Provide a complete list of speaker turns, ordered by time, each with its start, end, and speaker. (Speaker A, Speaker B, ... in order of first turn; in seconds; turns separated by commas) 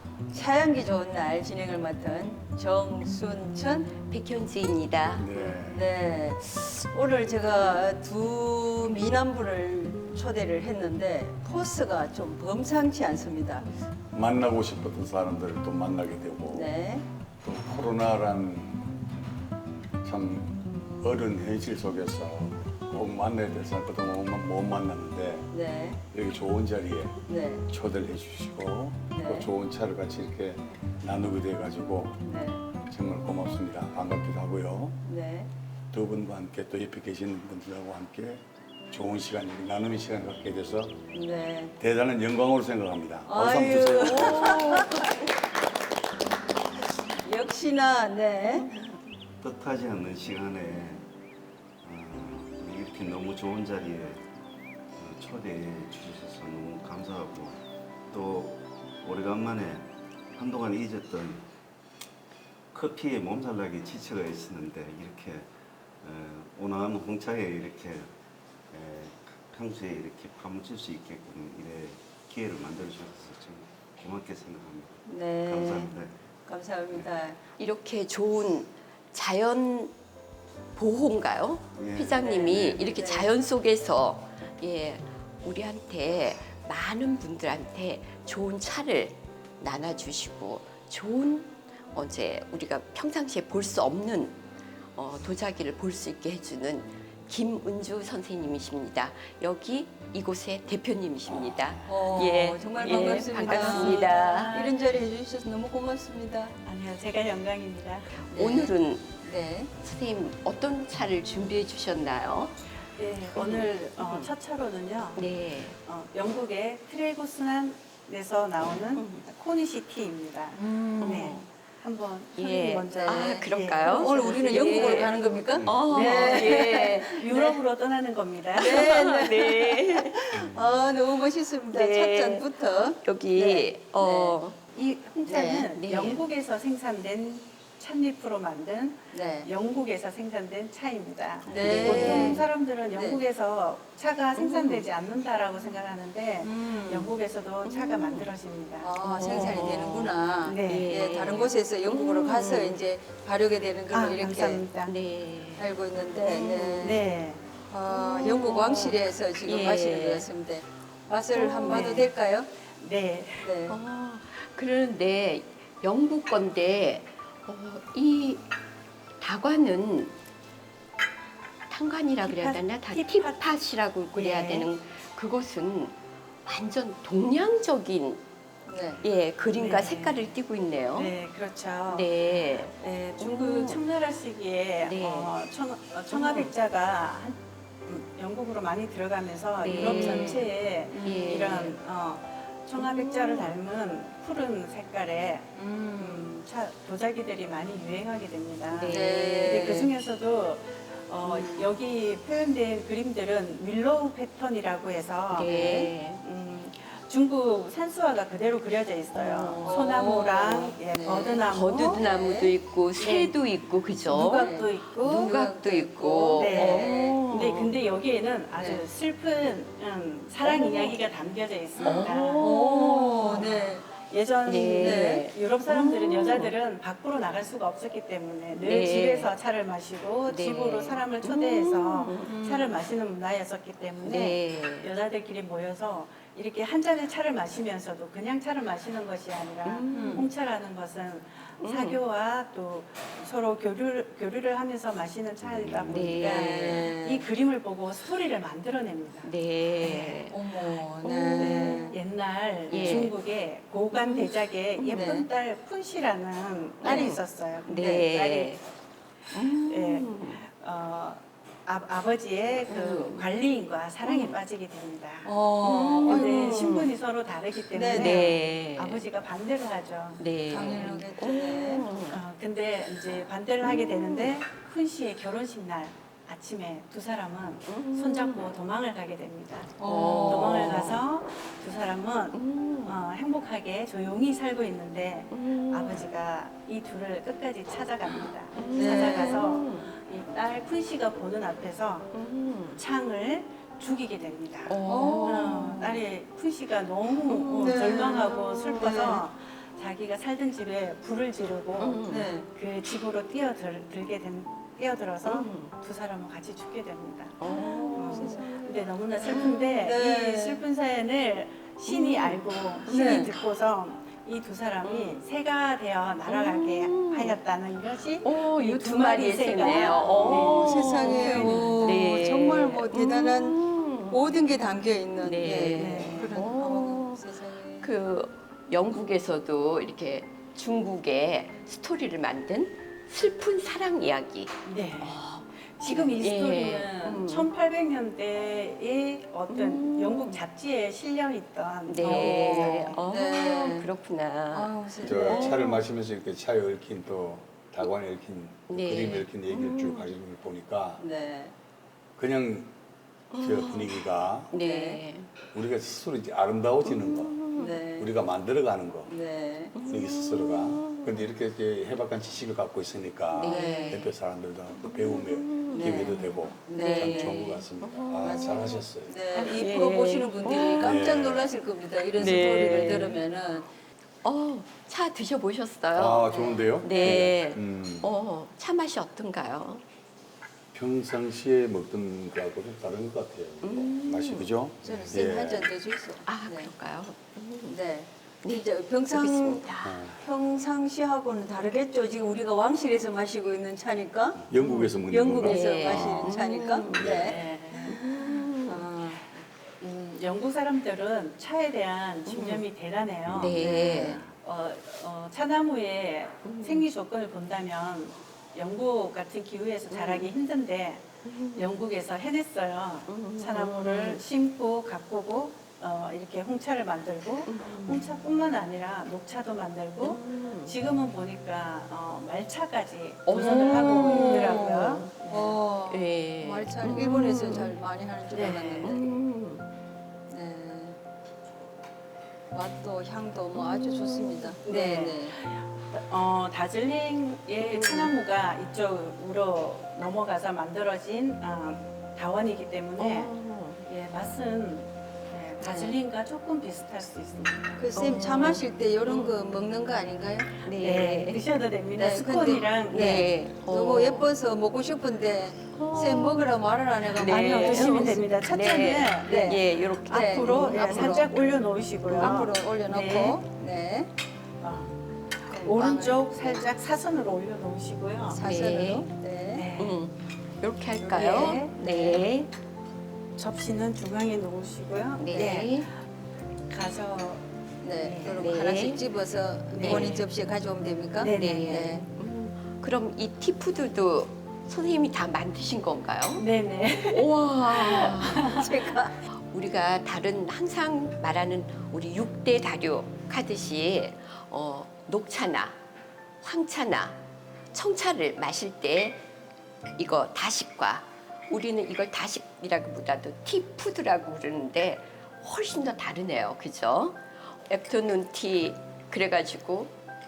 Speaker A: 0.3-3.9, Speaker B: 4.1-5.5, Speaker C: 5.2-5.9, Speaker A: 5.7-13.7, Speaker C: 14.1-16.7, Speaker A: 16.5-17.1, Speaker C: 17.4-19.0, Speaker C: 20.0-25.5, Speaker A: 25.5-26.0, Speaker C: 26.1-27.2, Speaker A: 27.3-27.7, Speaker C: 27.7-32.2, Speaker A: 29.1-29.5, Speaker A: 32.2-32.6, Speaker C: 32.9-35.0, Speaker A: 35.0-35.5, Speaker C: 35.9-41.0, Speaker A: 41.1-41.8, Speaker C: 41.8-44.7, Speaker A: 43.3-45.0, Speaker A: 47.2-48.7, Speaker D: 49.4-51.1, Speaker D: 51.8-54.2, Speaker D: 55.0-61.5, Speaker D: 62.7-65.5, Speaker D: 66.0-68.1, Speaker D: 68.7-76.2, Speaker A: 75.1-77.4, Speaker B: 77.6-79.9, Speaker B: 80.8-94.4, Speaker D: 81.8-82.9, Speaker A: 82.2-83.3, Speaker B: 95.0-104.5, Speaker C: 101.2-101.9, Speaker A: 101.9-106.6, Speaker E: 102.8-104.8, Speaker E: 106.7-108.1, Speaker B: 108.3-109.1, Speaker A: 108.3-109.7, Speaker B: 109.8-112.6, Speaker E: 112.9-125.2, Speaker B: 113.3-114.3, Speaker B: 115.2-115.8, Speaker B: 119.0-119.2, Speaker A: 120.5-121.3, Speaker B: 121.0-121.5, Speaker B: 122.4-127.2, Speaker A: 122.9-123.3, Speaker A: 123.9-127.6, Speaker C: 125.5-125.9, Speaker E: 125.8-129.0, Speaker A: 128.6-134.4, Speaker B: 128.6-130.4, Speaker B: 131.6-134.6, Speaker E: 134.7-149.8, Speaker A: 135.3-135.7, Speaker B: 135.8-136.2, Speaker A: 139.1-139.5, Speaker A: 141.5-143.2, Speaker B: 141.5-142.4, Speaker B: 144.4-144.9, Speaker A: 146.4-147.1, Speaker B: 147.7-148.3, Speaker A: 148.8-154.7, Speaker B: 149.0-152.8, Speaker E: 150.4-150.9, Speaker E: 153.9-154.9, Speaker B: 154.8-155.7, Speaker A: 155.6-157.1, Speaker B: 156.2-157.0, Speaker E: 156.8-157.4, Speaker A: 157.7-162.5, Speaker B: 157.9-160.3, Speaker B: 161.3-162.1, Speaker E: 161.7-162.1, Speaker E: 162.8-163.6, Speaker A: 163.4-163.8, Speaker B: 163.7-168.5, Speaker B: 169.2-170.1, Speaker B: 171.7-178.2, Speaker E: 172.2-173.4, Speaker E: 174.1-174.7, Speaker A: 178.7-179.0, Speaker B: 179.0-181.1, Speaker E: 179.5-180.2, Speaker E: 180.9-212.0, Speaker B: 181.9-183.8, Speaker B: 184.8-185.3, Speaker B: 186.1-186.5, Speaker B: 189.6-191.8, Speaker A: 189.6-191.5, Speaker B: 192.8-193.5, Speaker A: 195.6-196.3, Speaker B: 198.7-199.6, Speaker A: 198.9-199.9, Speaker A: 201.2-201.7, Speaker B: 205.3-206.2, Speaker B: 209.1-210.2, Speaker A: 209.6-212.6, Speaker B: 211.5-217.7, Speaker E: 213.0-213.4, Speaker E: 214.0-215.3, Speaker A: 214.1-217.2, Speaker E: 216.3-250.2, Speaker A: 218.5-218.8, Speaker B: 220.4-220.9, Speaker A: 221.8-223.9, Speaker B: 221.8-223.5, Speaker B: 224.5-226.5, Speaker A: 224.8-225.3, Speaker B: 228.6-229.3, Speaker B: 230.3-232.4, Speaker A: 232.3-232.8, Speaker B: 234.0-234.9, Speaker B: 239.7-240.3, Speaker A: 239.9-240.3, Speaker B: 241.6-242.0, Speaker D: 245.4-246.1, Speaker B: 245.9-246.8, Speaker A: 246.2-247.2, Speaker B: 249.2-250.4, Speaker A: 250.3-252.0, Speaker B: 251.0-251.9, Speaker E: 251.4-258.6, Speaker B: 252.7-253.1, Speaker B: 253.9-255.2, Speaker A: 254.9-255.3, Speaker B: 256.8-258.6, Speaker A: 256.8-257.1, Speaker B: 259.3-260.4, Speaker E: 259.6-270.9, Speaker B: 262.7-263.3, Speaker B: 264.0-264.4, Speaker A: 265.2-266.8, Speaker B: 266.1-266.9, Speaker A: 267.7-268.3, Speaker B: 267.9-269.0, Speaker B: 270.2-272.2, Speaker A: 270.5-271.9, Speaker E: 272.1-292.1, Speaker B: 273.6-274.3, Speaker B: 277.7-278.5, Speaker A: 279.8-280.9, Speaker B: 279.8-281.0, Speaker B: 282.3-283.0, Speaker B: 285.3-286.0, Speaker B: 288.1-289.9, Speaker A: 288.7-289.5, Speaker B: 292.1-292.8, Speaker E: 292.7-322.1, Speaker B: 294.7-295.9, Speaker A: 294.9-296.0, Speaker B: 297.2-299.2, Speaker A: 297.6-299.2, Speaker B: 301.8-302.4, Speaker A: 302.1-302.5, Speaker B: 305.2-305.7, Speaker B: 307.4-308.6, Speaker A: 307.4-310.6, Speaker B: 309.3-309.8, Speaker B: 311.9-313.3, Speaker A: 312.9-313.3, Speaker B: 314.8-315.2, Speaker B: 316.3-317.4, Speaker B: 318.2-324.4, Speaker A: 319.9-327.9, Speaker C: 320.2-320.4, Speaker B: 325.2-327.2, Speaker E: 325.7-326.4, Speaker B: 327.8-337.5, Speaker E: 334.6-343.0, Speaker B: 339.5-340.4, Speaker B: 341.9-345.8, Speaker A: 342.0-343.9, Speaker A: 344.5-345.7, Speaker C: 345.0-351.0, Speaker B: 348.7-350.1, Speaker A: 351.0-351.5, Speaker C: 352.2-352.7, Speaker B: 353.3-355.3, Speaker C: 353.4-354.5, Speaker A: 354.5-355.0, Speaker C: 355.5-357.4, Speaker B: 356.8-357.8, Speaker A: 357.6-358.1, Speaker C: 358.0-359.1, Speaker A: 359.1-359.8, Speaker B: 359.7-361.3, Speaker C: 359.9-369.2, Speaker B: 363.3-364.1, Speaker A: 363.4-364.1, Speaker B: 364.8-371.2, Speaker A: 365.7-367.6, Speaker A: 368.2-373.7, Speaker C: 370.8-371.5, Speaker C: 372.2-373.1, Speaker B: 372.2-373.2, Speaker B: 374.2-379.8, Speaker C: 375.9-378.1, Speaker A: 376.2-377.3, Speaker C: 380.7-385.7, Speaker B: 383.6-385.1, Speaker A: 384.9-386.7, Speaker B: 386.2-387.8, Speaker A: 387.7-394.4, Speaker B: 388.4-390.0, Speaker C: 389.8-390.2, Speaker C: 394.4-396.3, Speaker B: 394.6-398.9, Speaker A: 395.1-399.4, Speaker C: 396.9-397.3, Speaker E: 397.1-398.0, Speaker E: 399.8-411.0, Speaker B: 402.3-402.6, Speaker B: 403.3-404.2, Speaker A: 403.6-404.2, Speaker B: 406.4-406.9, Speaker B: 409.9-410.3, Speaker B: 411.2-411.8, Speaker E: 411.6-425.6, Speaker B: 413.1-414.2, Speaker B: 417.5-418.1, Speaker B: 420.0-420.8, Speaker B: 423.3-425.1, Speaker A: 423.8-429.1, Speaker B: 425.9-427.7, Speaker E: 428.3-429.0, Speaker B: 428.8-429.7, Speaker A: 430.3-431.0, Speaker A: 432.5-435.4, Speaker B: 433.5-434.6, Speaker E: 434.6-448.4, Speaker B: 437.6-438.1, Speaker B: 443.0-443.9, Speaker A: 447.8-450.6, Speaker B: 447.9-449.4, Speaker B: 450.6-451.4, Speaker E: 450.7-453.3, Speaker A: 451.9-458.2, Speaker B: 452.9-454.3, Speaker B: 455.7-456.5, Speaker B: 457.1-461.3, Speaker E: 457.2-463.5, Speaker A: 459.2-464.1, Speaker B: 462.2-462.4, Speaker E: 464.6-464.9, Speaker E: 465.5-468.8, Speaker A: 465.5-466.7, Speaker A: 468.3-469.7, Speaker B: 468.4-469.1, Speaker E: 469.5-470.0, Speaker B: 469.8-472.5, Speaker E: 471.0-472.3, Speaker E: 473.4-476.0, Speaker B: 475.2-475.9, Speaker E: 476.7-478.4, Speaker A: 477.8-482.1, Speaker B: 478.3-479.0, Speaker E: 479.7-480.2, Speaker B: 479.8-480.3, Speaker E: 481.2-481.6, Speaker B: 481.2-486.5, Speaker E: 486.4-488.8, Speaker B: 487.0-488.7, Speaker A: 488.4-489.1, Speaker B: 489.2-495.8, Speaker B: 496.4-497.2, Speaker B: 497.7-499.2, Speaker B: 500.0-509.9